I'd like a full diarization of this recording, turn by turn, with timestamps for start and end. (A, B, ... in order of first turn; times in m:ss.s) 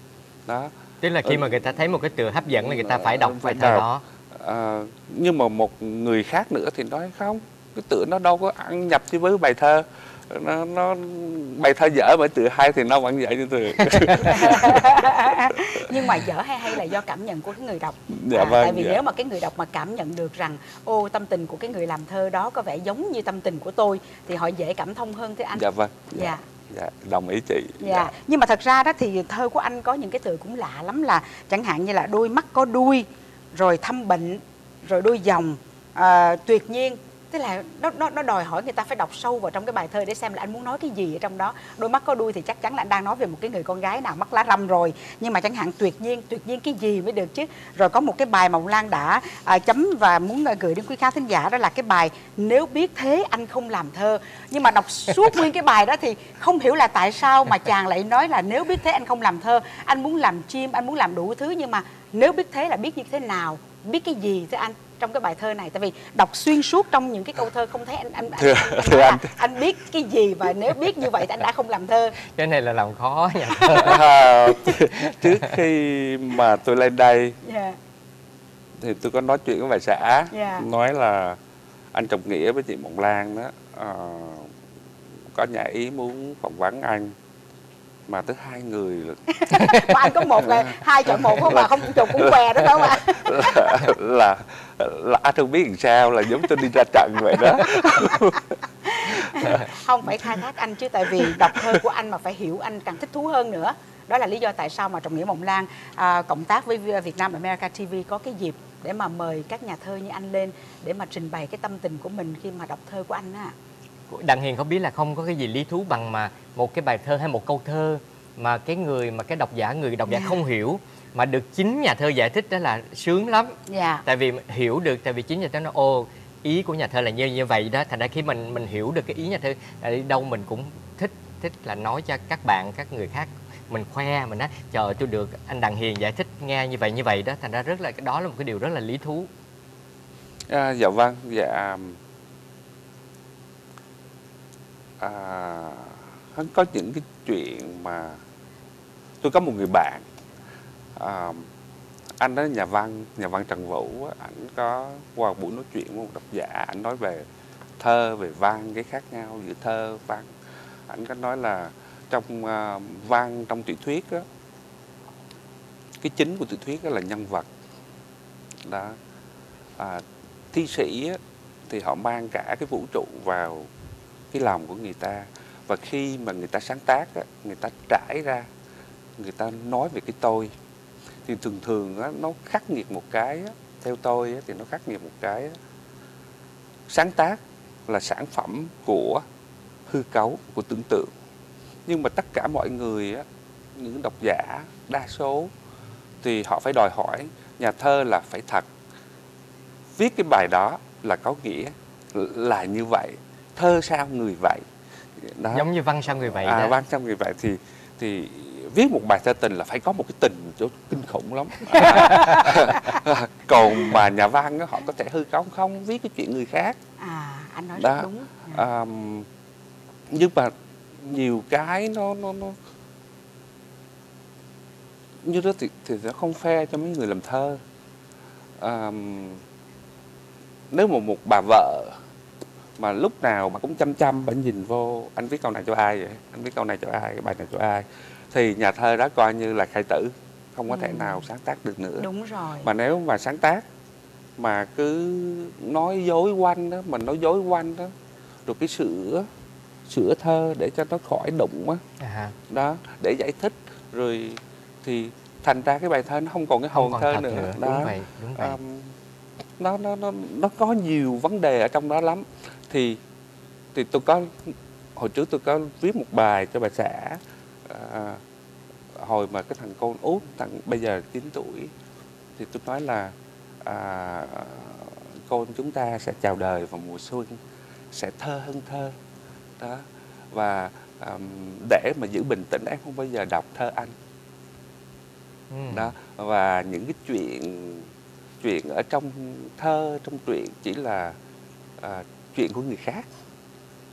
0:00.5-0:00.7 A
0:01.0-0:03.9 B
0:01.2-0:15.8 A
0:14.2-0:26.4 C
0:18.1-0:19.0 A
0:25.5-0:28.1 A
0:27.8-1:12.2 C
1:08.4-1:09.3 A
1:12.3-1:13.9 B
1:13.6-1:17.4 A
1:17.4-1:17.8 C
1:18.8-1:21.4 A
1:20.3-1:20.6 C
1:21.9-1:24.5 A
1:25.3-1:27.1 A
1:28.1-1:38.5 A
1:29.3-1:33.8 C
1:38.8-1:53.5 C
1:39.1-1:39.7 A
1:54.2-2:19.2 B
2:00.0-2:00.4 C
2:03.7-2:04.0 C
2:20.5-2:22.0 A
2:25.0-2:28.2 A
2:29.2-2:30.0 A
2:31.0-2:31.5 A
2:32.2-2:37.2 A
2:37.8-2:40.3 A
2:40.9-2:44.2 A
2:46.0-2:47.5 A
2:48.6-2:49.0 A
2:49.8-2:53.7 A
2:54.3-2:58.5 A
2:59.2-3:00.5 A
3:01.2-3:05.6 A
3:06.9-3:09.2 A
3:09.9-3:11.1 A
3:11.8-3:15.5 A
3:16.2-3:18.7 A
3:20.0-3:24.6 A
3:25.2-3:36.8 A
3:25.5-3:26.8 B
3:31.7-3:32.5 C
3:37.0-3:38.6 C
3:37.8-3:39.3 A
3:40.1-3:42.6 A
3:45.2-3:47.6 A
3:48.6-3:49.4 A
3:50.7-3:52.0 A
3:52.8-4:02.1 A
4:00.7-4:01.2 C
4:02.0-4:02.7 C
4:02.6-4:03.6 A
4:04.4-4:07.9 A
4:08.4-4:09.3 A
4:09.8-4:11.8 A
4:12.5-4:19.0 A
4:16.8-4:18.6 B
4:19.6-4:23.0 A
4:23.7-4:28.2 A
4:29.0-4:31.7 A
4:32.4-4:37.4 A
4:37.9-4:38.9 A
4:39.6-4:43.9 A
4:45.7-4:47.9 A
4:48.4-4:51.2 A
4:51.8-4:53.0 A